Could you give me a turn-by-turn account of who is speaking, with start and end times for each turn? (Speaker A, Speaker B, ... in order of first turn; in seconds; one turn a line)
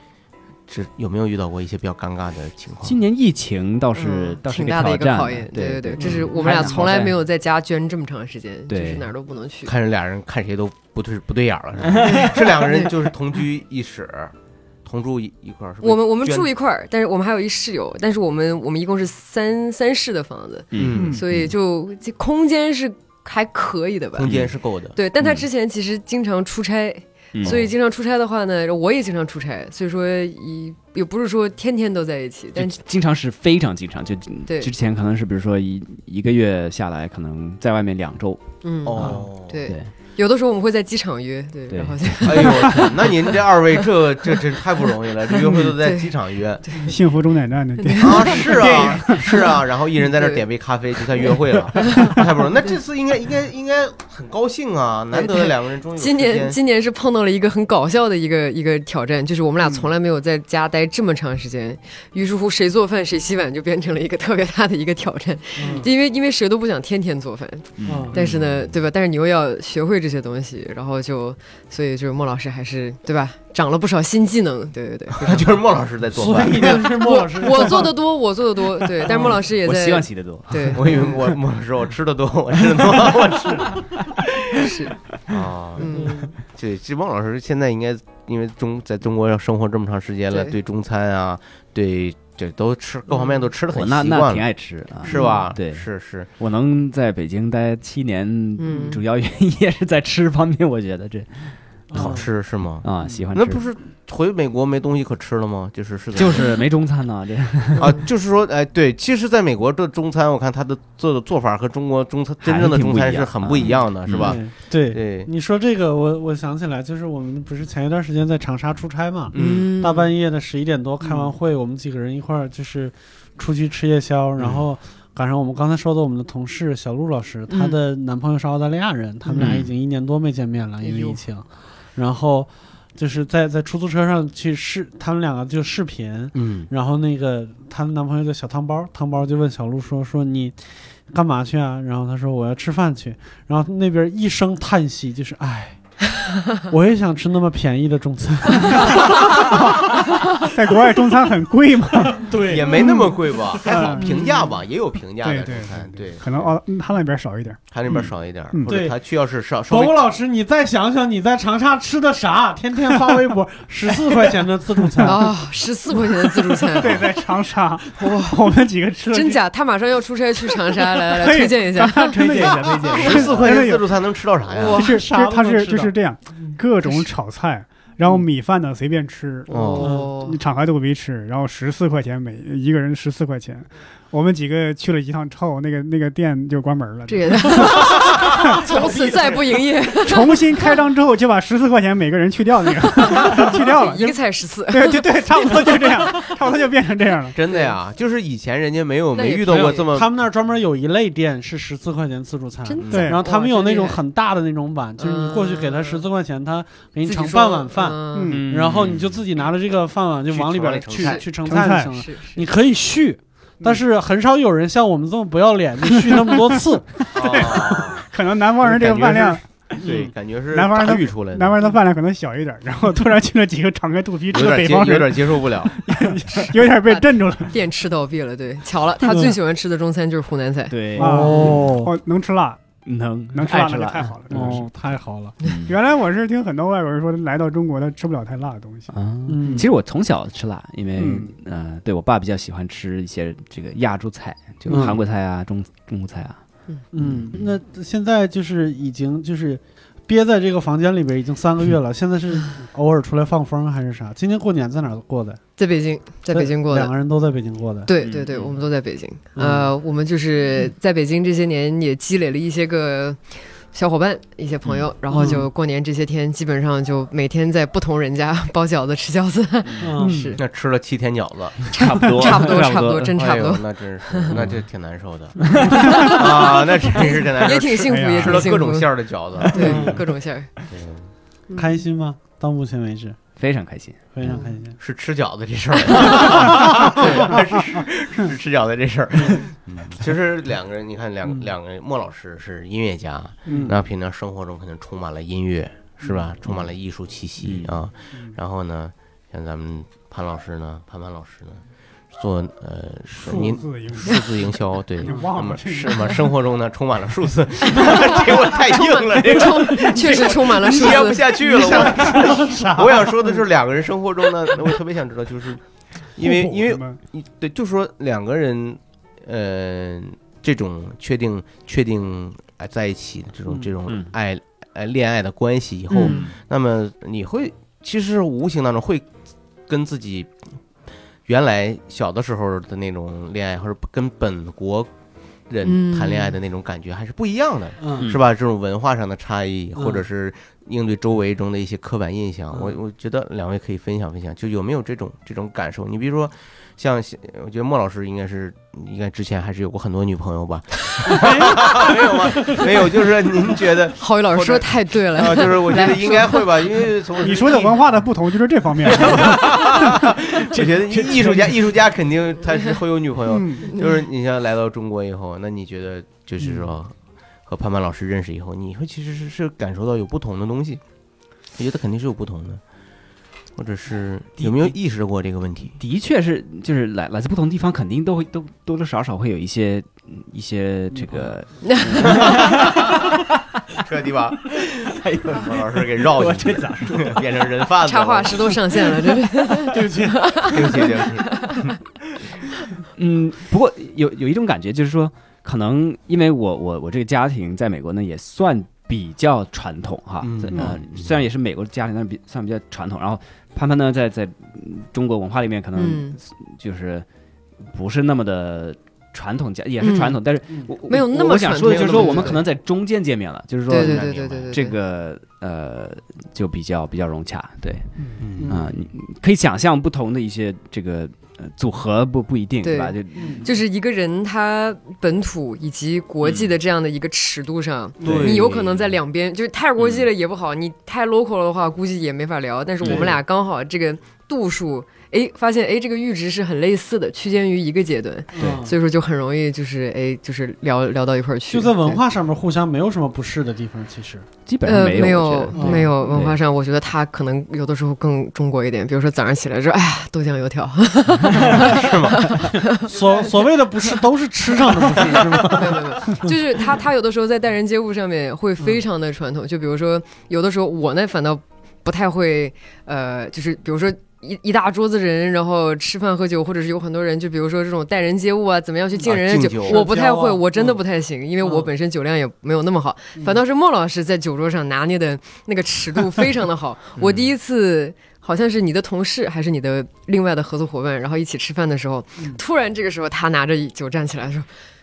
Speaker A: 0.7-3.0
Speaker B: 2.8-7.2
Speaker C: 3.9-9.7
Speaker D: 6.1-6.7
Speaker B: 8.7-9.1
Speaker A: 9.7-16.5
Speaker B: 11.8-12.9
Speaker C: 15.8-24.3
Speaker B: 20.7-21.5
Speaker A: 20.7-21.2
Speaker E: 20.9-21.2
Speaker A: 24.2-25.0
Speaker B: 24.2-24.6
Speaker C: 24.9-32.8
Speaker B: 27.3-27.6
Speaker A: 27.4-27.7
Speaker B: 32.6-38.4
Speaker C: 34.5-34.7
Speaker C: 38.6-43.2
Speaker A: 38.9-39.6
Speaker B: 41.7-42.5
Speaker A: 42.2-46.8
Speaker C: 45.3-46.1
Speaker C: 46.6-46.9
Speaker E: 46.9-49.3
Speaker C: 47.8-49.2
Speaker A: 48.0-56.6
Speaker C: 51.8-52.2
Speaker C: 55.1-75.5
Speaker D: 65.6-65.9
Speaker B: 67.8-68.1
Speaker D: 67.9-68.2
Speaker A: 68.1-68.7
Speaker A: 75.2-76.9
Speaker D: 76.2-78.0
Speaker C: 76.6-80.8
Speaker B: 79.1-80.9
Speaker A: 80.7-83.8
Speaker B: 82.7-83.8
Speaker C: 84.6-84.9
Speaker A: 85.3-94.5
Speaker C: 85.8-86.3
Speaker B: 93.7-95.9
Speaker A: 95.0-96.3
Speaker C: 95.1-95.4
Speaker B: 96.4-102.1
Speaker C: 98.6-99.0
Speaker D: 101.9-102.3
Speaker A: 102.0-106.5
Speaker B: 102.8-103.6
Speaker B: 106.2-107.9
Speaker A: 107.8-115.3
Speaker B: 112.4-114.4
Speaker D: 114.2-149.6
Speaker A: 119.3-119.7
Speaker C: 119.4-120.1
Speaker A: 124.4-124.6
Speaker C: 127.5-127.8
Speaker C: 129.3-129.6
Speaker B: 129.4-129.7
Speaker C: 130.8-131.2
Speaker A: 136.3-136.7
Speaker E: 148.6-149.7
Speaker E: 150.4-153.0
Speaker D: 152.1-154.4
Speaker A: 152.4-156.5
Speaker E: 153.7-154.4
Speaker E: 155.2-157.6
Speaker A: 157.7-160.0
Speaker D: 158.7-158.9
Speaker D: 159.7-165.3
Speaker C: 165.0-167.0
Speaker D: 166.1-166.8
Speaker E: 166.8-169.4
Speaker C: 168.0-168.4
Speaker C: 169.1-172.2
Speaker E: 171.1-173.9
Speaker B: 172.1-173.5
Speaker D: 172.4-172.8
Speaker A: 172.9-174.9
Speaker C: 174.5-174.9
Speaker D: 174.7-176.5
Speaker E: 174.7-188.7
Speaker C: 179.5-180.4
Speaker A: 179.5-179.9
Speaker D: 179.8-180.2
Speaker C: 187.1-190.7
Speaker A: 187.9-188.6
Speaker D: 188.7-189.5
Speaker E: 190.1-197.4
Speaker C: 192.9-196.3
Speaker A: 197.3-200.1
Speaker C: 199.2-199.8
Speaker D: 199.5-217.0
Speaker C: 202.6-204.0
Speaker A: 202.8-203.2
Speaker E: 202.9-203.2
Speaker C: 205.0-206.0
Speaker C: 207.0-208.4
Speaker E: 208.1-208.5
Speaker B: 208.3-209.1
Speaker A: 210.3-211.3
Speaker C: 211.0-211.2
Speaker E: 211.4-211.9
Speaker C: 211.9-212.4
Speaker E: 216.1-216.4
Speaker A: 217.1-218.0
Speaker E: 217.1-219.4
Speaker A: 218.6-221.6
Speaker D: 218.7-219.2
Speaker D: 219.8-220.1
Speaker E: 220.5-227.6
Speaker A: 224.3-225.8
Speaker C: 226.9-231.5
Speaker D: 229.1-229.4
Speaker B: 230.7-231.7
Speaker D: 230.9-231.9
Speaker E: 231.0-232.6
Speaker B: 232.9-234.6
Speaker E: 233.3-238.9
Speaker D: 234.3-235.4
Speaker B: 235.4-235.8
Speaker B: 238.9-246.4
Speaker D: 239.3-239.7
Speaker E: 241.0-241.3
Speaker D: 244.7-245.0
Speaker D: 246.9-255.4
Speaker B: 247.0-247.4
Speaker C: 255.6-256.9
Speaker D: 256.3-257.9
Speaker C: 257.9-270.4
Speaker B: 258.0-258.6
Speaker D: 259.4-259.7
Speaker B: 264.7-265.4
Speaker D: 265.1-265.5
Speaker B: 269.6-269.9
Speaker D: 269.8-270.2
Speaker E: 270.0-270.3
Speaker A: 270.4-271.7
Speaker B: 271.7-273.1
Speaker C: 271.7-274.3
Speaker A: 273.1-279.9
Speaker B: 274.3-274.6
Speaker B: 275.5-275.9
Speaker C: 275.7-280.5
Speaker E: 277.9-278.5
Speaker B: 279.4-280.0
Speaker D: 279.6-280.0
Speaker A: 280.7-281.1
Speaker C: 281.5-281.7
Speaker D: 281.6-283.2
Speaker B: 283.4-284.3
Speaker D: 284.1-284.8
Speaker C: 284.3-284.6
Speaker A: 284.8-315.6
Speaker C: 285.9-287.4
Speaker D: 286.6-287.6
Speaker D: 293.5-293.8
Speaker B: 297.4-297.8
Speaker D: 303.2-303.5
Speaker E: 303.3-306.3
Speaker C: 307.8-311.2
Speaker D: 311.3-313.4
Speaker E: 311.8-312.6
Speaker A: 316.2-329.1
Speaker E: 316.2-317.0
Speaker C: 325.9-326.2
Speaker A: 329.7-330.4
Speaker A: 331.3-334.9
Speaker A: 335.5-357.9
Speaker C: 335.6-336.4
Speaker D: 337.8-338.1
Speaker D: 339.8-340.0
Speaker D: 351.0-352.6
Speaker C: 354.0-356.5
Speaker E: 357.2-359.6
Speaker A: 358.8-366.9
Speaker B: 360.5-361.8
Speaker E: 363.3-363.7
Speaker C: 363.7-364.0
Speaker A: 367.4-370.8
Speaker A: 371.6-372.6
Speaker A: 373.6-375.8
Speaker B: 374.4-374.7
Speaker B: 375.8-383.4
Speaker D: 380.9-381.3
Speaker C: 381.6-381.9
Speaker A: 382.1-383.1
Speaker A: 383.8-388.6
Speaker B: 384.5-387.3
Speaker C: 387.9-391.6
Speaker D: 389.7-390.5
Speaker A: 390.4-391.7
Speaker B: 392.9-407.1
Speaker A: 400.2-401.1
Speaker C: 405.7-406.2
Speaker B: 407.7-417.9
Speaker C: 409.8-410.2
Speaker C: 410.9-412.4
Speaker A: 411.6-412.4
Speaker C: 413.7-414.8
Speaker A: 413.7-414.6
Speaker A: 418.2-418.6
Speaker D: 418.4-418.7
Speaker B: 418.4-423.4
Speaker C: 422.6-442.0
Speaker D: 423.1-423.5
Speaker B: 426.2-426.5
Speaker A: 428.0-428.5
Speaker D: 428.0-428.3
Speaker B: 428.0-428.9
Speaker B: 432.8-433.1
Speaker D: 432.8-433.1
Speaker D: 438.4-438.8
Speaker D: 441.5-444.3
Speaker B: 444.4-446.4
Speaker C: 444.7-453.9
Speaker D: 445.5-445.9
Speaker D: 451.3-451.8
Speaker A: 451.4-452.3
Speaker D: 452.7-456.4
Speaker A: 453.0-453.3
Speaker C: 454.9-484.5
Speaker A: 469.0-469.8
Speaker D: 469.6-470.8
Speaker D: 471.4-471.7